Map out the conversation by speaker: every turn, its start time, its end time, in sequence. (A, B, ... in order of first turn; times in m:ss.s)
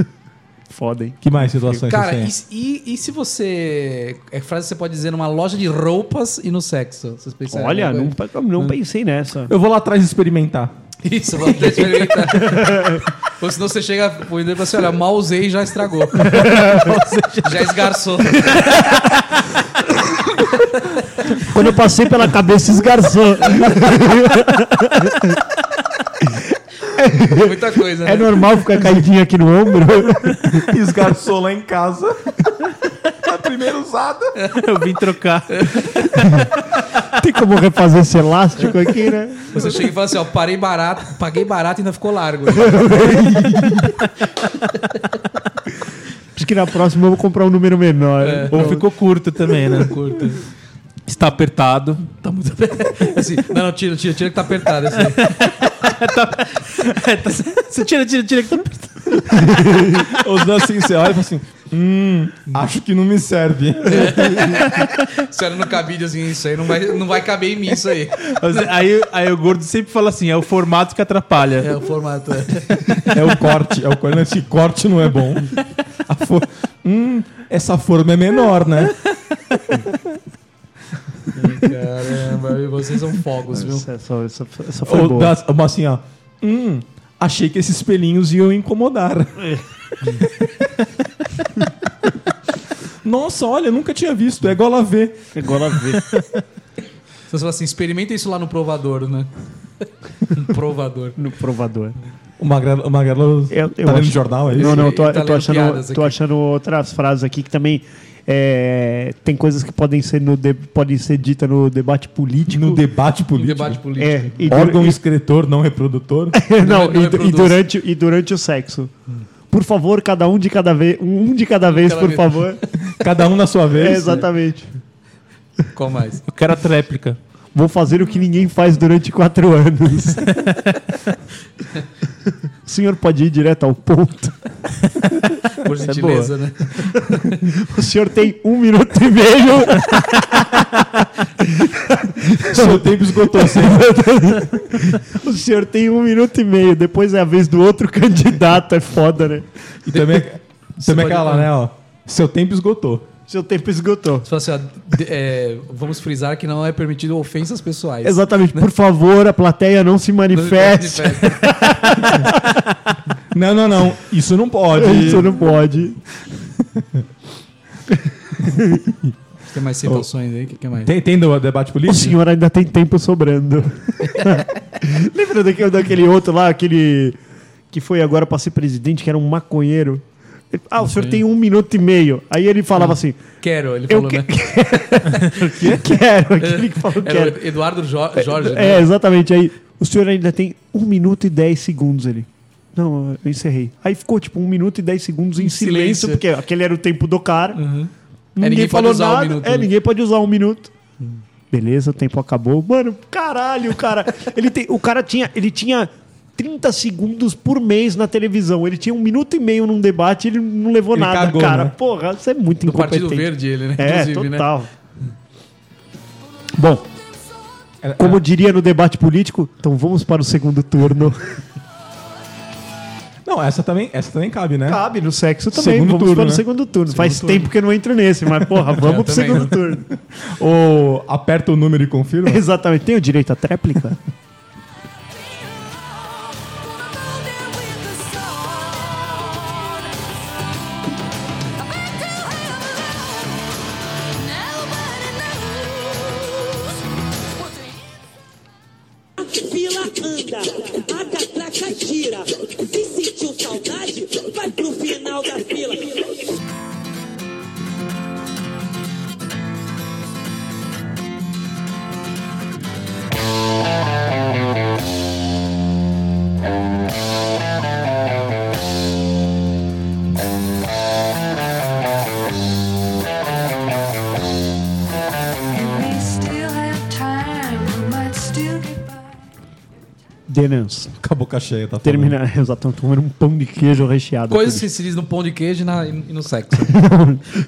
0:00.7-0:01.2 A
0:01.2-0:02.3 B
0:01.7-0:08.8 C
0:07.5-0:09.5 A
0:09.5-0:10.7 B
0:11.0-0:19.0 C
0:12.3-0:13.0 A
0:16.2-0:16.9 A
0:16.6-0:17.1 D
0:21.3-0:25.4 A
0:26.2-0:30.7 A
0:27.3-0:28.4 C
0:30.4-0:32.5 B
0:33.1-0:34.4 B
0:34.4-0:35.7 D
0:35.5-0:36.1 C
0:36.1-0:36.5 A
0:37.1-0:39.6 A
0:39.5-0:43.1 C
0:42.5-0:43.8 A
0:43.3-0:43.8 B
0:46.3-0:48.8 A
0:48.2-0:48.8 C
0:48.5-0:50.0 D
0:49.6-0:50.4 C
0:51.1-0:52.2 D
0:52.2-0:55.3 C
0:55.1-0:59.5 D
0:59.3-1:00.0 A
1:00.0-1:04.4 B
1:03.9-1:08.7 C
1:08.2-1:11.7 D
1:11.6-1:13.1 C
1:13.1-1:19.0 B
1:21.3-1:23.8 C
1:23.5-1:25.3 A
1:24.8-1:30.9 B
1:33.0-1:35.4 B
1:35.3-1:36.0 A
1:37.3-1:39.3 C
1:39.8-1:41.2 C
1:41.2-1:42.0 A
1:42.4-1:44.9 B
1:43.5-1:52.8 A
1:44.6-1:46.2 C
1:52.5-1:53.8 B
1:53.4-1:54.4 C
1:54.0-1:55.0 A
1:54.5-1:56.4 B
1:56.3-1:58.9 A
1:56.6-1:57.6 C
1:59.5-2:02.6 A
2:01.7-2:02.4 C
2:02.9-2:04.3 B
2:03.7-2:04.7 A
2:05.7-2:06.2 C
2:06.3-2:07.2 D
2:07.5-2:10.3 A
2:10.4-2:10.7 D
2:12.6-2:14.3 A
2:15.5-2:17.5 C
2:15.8-2:16.3 D
2:16.9-2:20.8 A
2:21.4-2:29.4 A
2:22.4-2:24.5 B
2:29.9-2:33.0 B
2:29.9-2:31.5 C
2:33.3-2:34.3 A
2:34.2-2:38.7 C
2:38.0-2:42.3 A
2:40.3-2:41.9 C
2:43.3-2:45.4 B
2:44.7-2:46.0 A
2:48.4-2:48.8 A
2:49.5-2:50.9 C
2:50.8-2:52.2 B
2:51.9-2:57.2 A
2:57.7-3:03.2 A
3:00.8-3:01.2 C
3:02.8-3:04.5 C
3:03.9-3:07.4 A
3:06.4-3:08.9 C
3:08.2-3:17.6 A
3:15.4-3:16.2 C
3:17.5-3:19.7 C
3:18.4-3:20.7 A
3:21.5-3:34.7 A
3:30.9-3:31.7 B
3:32.6-3:34.5 C
3:36.5-3:36.8 A
3:37.8-3:38.2 B
3:38.0-3:41.2 A
3:43.2-3:44.8 B
3:44.7-3:49.9 A
3:45.5-3:46.4 B
3:47.0-3:47.5 C
3:48.8-3:49.5 C
3:50.1-3:52.4 B
3:52.2-3:54.0 A
3:56.0-3:59.8 E
4:01.7-4:03.4 E
4:04.2-4:06.3 E
4:09.2-4:16.2 F
4:35.5-4:39.2 E
4:40.3-4:40.9 A
4:41.0-4:42.2 B
4:41.8-4:44.6 A
4:44.3-4:46.7 C
4:46.7-4:47.2 A